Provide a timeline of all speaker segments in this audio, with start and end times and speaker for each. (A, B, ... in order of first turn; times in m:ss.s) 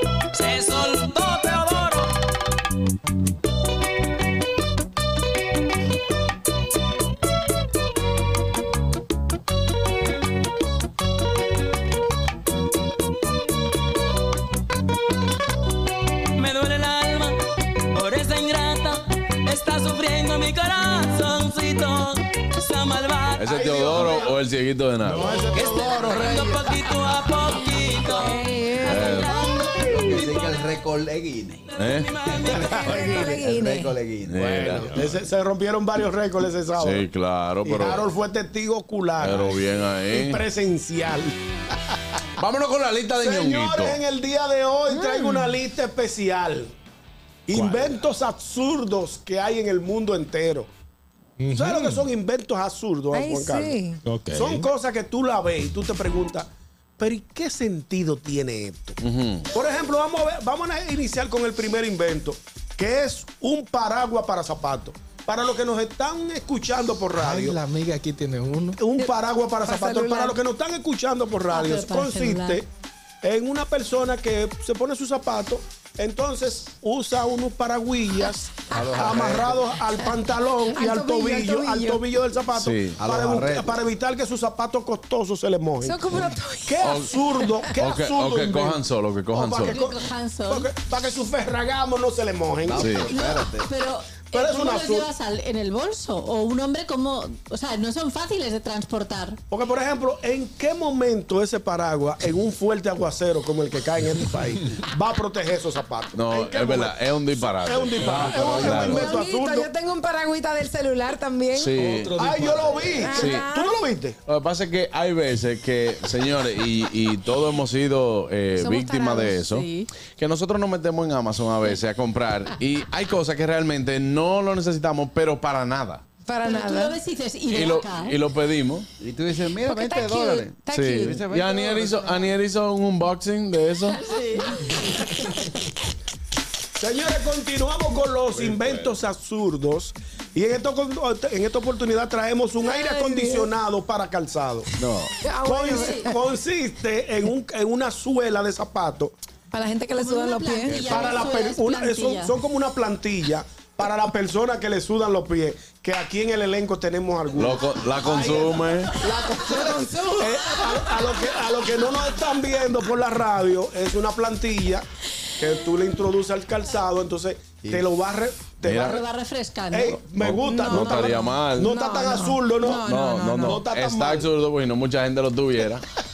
0:00.3-0:02.1 A
0:16.4-0:17.4 A
0:17.9-0:23.4 A
0:23.3-0:25.5 B
0:23.5-0:24.4 C
0:25.0-0:26.8 C
0:25.5-0:30.4 A
0:28.1-0:29.2 D
0:28.8-0:29.3 B
0:29.7-0:31.7 E
0:31.7-0:33.0 A
0:31.8-0:32.1 B
0:32.4-0:34.9 E
0:32.8-0:33.9 D
0:34.2-0:35.1 B
0:34.4-0:37.1 C
0:36.8-0:38.1 B
0:37.6-0:41.3 C
0:39.2-0:40.4 B
0:42.4-0:44.0 B
0:43.1-0:46.7 C
0:44.9-0:45.6 D
0:47.5-0:50.7 C
0:47.5-0:48.0 F
0:51.4-0:52.1 F
0:51.5-0:53.8 C
0:53.1-0:54.0 D
0:54.0-0:54.7 F
0:54.3-0:56.5 C
0:57.0-0:59.0 C
0:59.0-0:59.5 B
0:59.5-1:07.6 C
1:07.2-1:08.8 F
1:08.8-1:12.6 C
1:09.6-1:10.4 D
1:11.5-1:12.6 G
1:13.2-1:33.0 C
1:18.7-1:19.5 B
1:18.8-1:19.2 E
1:20.7-1:22.0 D
1:22.5-1:23.0 B
1:23.0-1:23.7 E
1:25.8-1:27.7 D
1:26.8-1:27.2 B
1:27.7-1:29.8 B
1:29.6-1:30.7 G
1:32.6-1:33.7 E
1:32.8-1:33.1 B
1:33.0-1:39.4 G
1:34.3-1:35.1 C
1:39.5-1:49.7 C
1:46.1-1:49.1 B
1:48.1-1:49.0 E
1:48.8-1:51.8 D
1:51.5-1:52.2 B
1:51.8-1:53.1 F
1:52.2-1:54.2 C
1:53.0-1:53.8 D
1:53.1-1:53.5 B
1:54.3-2:06.0 B
1:58.6-1:59.9 G
2:06.2-2:07.0 D
2:06.4-2:08.2 G
2:07.5-2:08.8 B
2:09.0-2:12.0 E
2:09.6-2:11.9 D
2:10.7-2:14.0 B
2:13.9-2:15.4 G
2:16.8-2:24.7 C
2:18.4-2:18.8 F
2:22.6-2:23.5 D
2:24.8-2:25.1 B
2:25.2-2:26.2 D
2:25.4-2:29.1 C
2:25.7-2:26.1 G
2:29.5-2:30.9 D
2:29.9-2:32.4 G
2:30.7-2:44.8 C
2:30.8-2:31.1 E
2:37.4-2:39.0 B
2:39.5-2:40.6 D
2:45.4-2:49.0 C
2:48.6-2:49.0 B
2:48.8-2:50.0 G
2:49.7-2:54.3 C
2:50.2-2:51.7 B
2:50.4-2:53.6 D
2:52.8-2:55.8 B